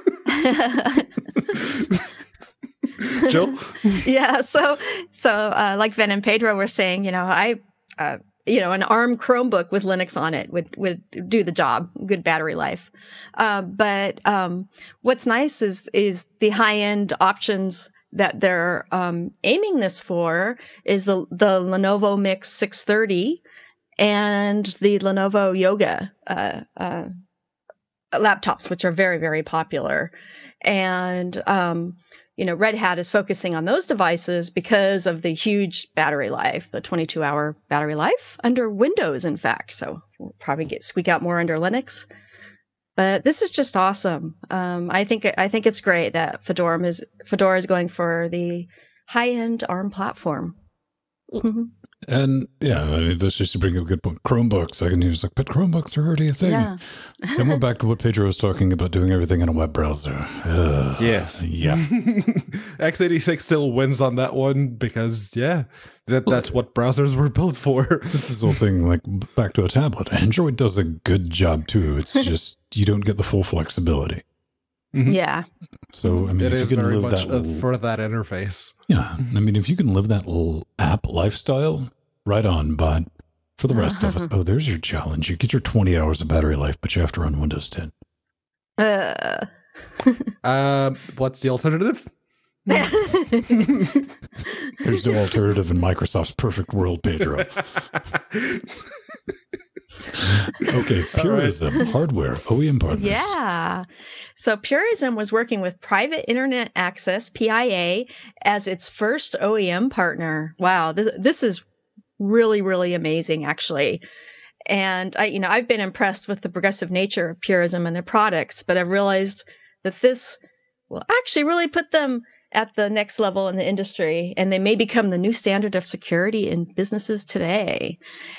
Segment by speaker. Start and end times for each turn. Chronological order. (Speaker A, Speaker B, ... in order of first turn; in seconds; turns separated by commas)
Speaker A: 0.3-1.1, Speaker B: 1.5-2.0, Speaker B: 3.0-4.0, Speaker A: 3.2-23.4, Speaker A: 24.0-27.1, Speaker A: 28.1-42.1, Speaker A: 43.0-50.5, Speaker A: 51.4-51.7, Speaker C: 52.0-61.9, Speaker A: 56.4-57.5, Speaker B: 61.0-68.6, Speaker C: 66.3-66.6, Speaker C: 68.1-74.2, Speaker A: 75.0-75.5, Speaker C: 75.9-77.6, Speaker B: 76.4-78.7, Speaker C: 78.9-87.9, Speaker A: 83.7-84.3, Speaker A: 88.8-89.5, Speaker B: 90.4-92.1, Speaker A: 92.7-93.7, Speaker C: 94.8-97.6, Speaker B: 98.1-98.8, Speaker C: 100.1-103.3, Speaker B: 101.1-101.6, Speaker A: 102.9-103.8, Speaker A: 104.3-111.6, Speaker A: 112.2-114.0, Speaker A: 114.7-120.4, Speaker A: 120.9-128.0